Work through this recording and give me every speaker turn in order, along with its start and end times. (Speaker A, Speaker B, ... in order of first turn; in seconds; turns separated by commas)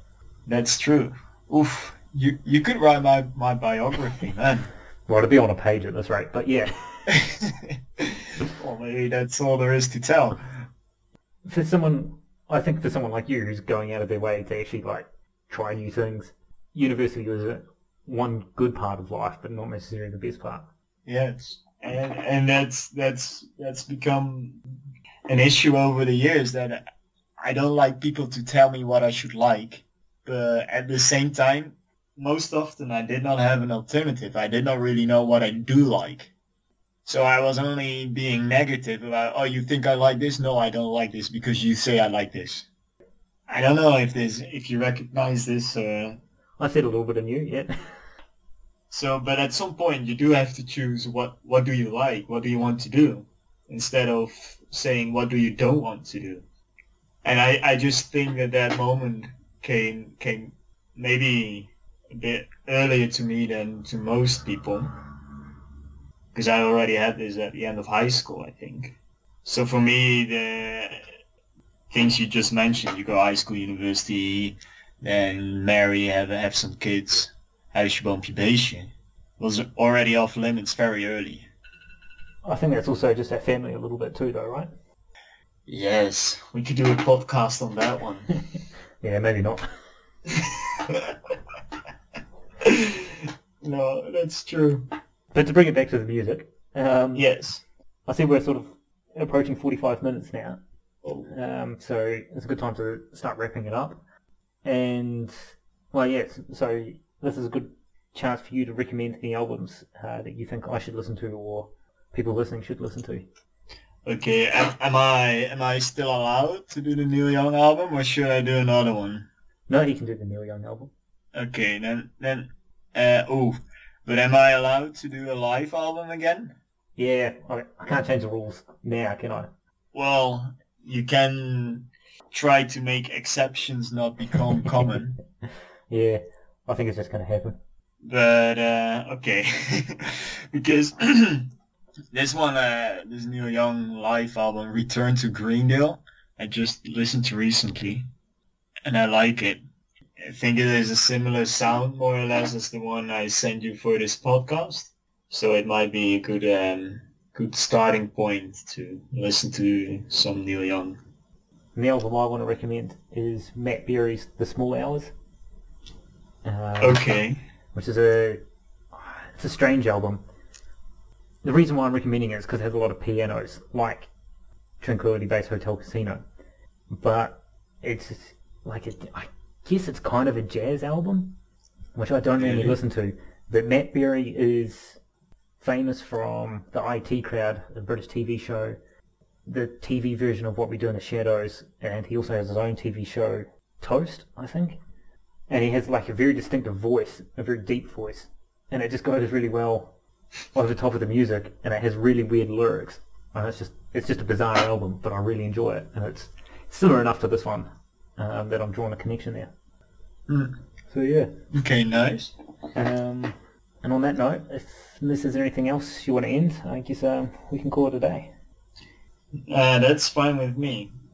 Speaker A: 0.5-4.7, Speaker B: 5.1-7.2, Speaker A: 7.1-10.5, Speaker B: 11.5-20.7, Speaker A: 21.1-24.6, Speaker A: 25.3-26.8, Speaker A: 27.4-36.3, Speaker A: 37.0-42.7, Speaker A: 43.5-46.2, Speaker B: 46.6-47.7, Speaker A: 48.9-56.5, Speaker A: 57.2-64.9, Speaker A: 66.3-71.0, Speaker A: 71.9-81.5, Speaker B: 82.4-84.7, Speaker A: 85.7-88.3, Speaker B: 89.0-89.7, Speaker A: 90.3-91.2, Speaker A: 92.6-94.9, Speaker B: 95.3-97.3, Speaker A: 97.2-97.6, Speaker B: 98.1-100.6, Speaker A: 101.0-101.3, Speaker B: 101.3-104.0, Speaker B: 104.7-105.3, Speaker B: 105.9-113.3, Speaker A: 114.0-119.3, Speaker B: 119.7-120.9, Speaker A: 121.3-126.5, Speaker B: 127.0-129.5, Speaker A: 129.9-135.2, Speaker B: 135.9-137.6, Speaker A: 138.0-141.5, Speaker A: 142.1-148.1, Speaker A: 148.8-149.6, Speaker A: 150.2-161.0, Speaker B: 161.8-165.1, Speaker B: 166.4-167.0, Speaker A: 166.8-167.4, Speaker B: 167.7-168.4, Speaker B: 168.9-170.2, Speaker B: 171.4-174.1, Speaker B: 174.8-176.2, Speaker B: 176.9-181.3, Speaker B: 181.9-185.0, Speaker A: 182.4-182.8, Speaker B: 185.6-188.8, Speaker B: 189.5-194.8, Speaker B: 195.5-199.9, Speaker B: 200.5-209.5, Speaker A: 210.3-210.6, Speaker B: 210.9-211.3, Speaker A: 211.5-212.3, Speaker B: 212.8-218.3, Speaker A: 219.5-220.9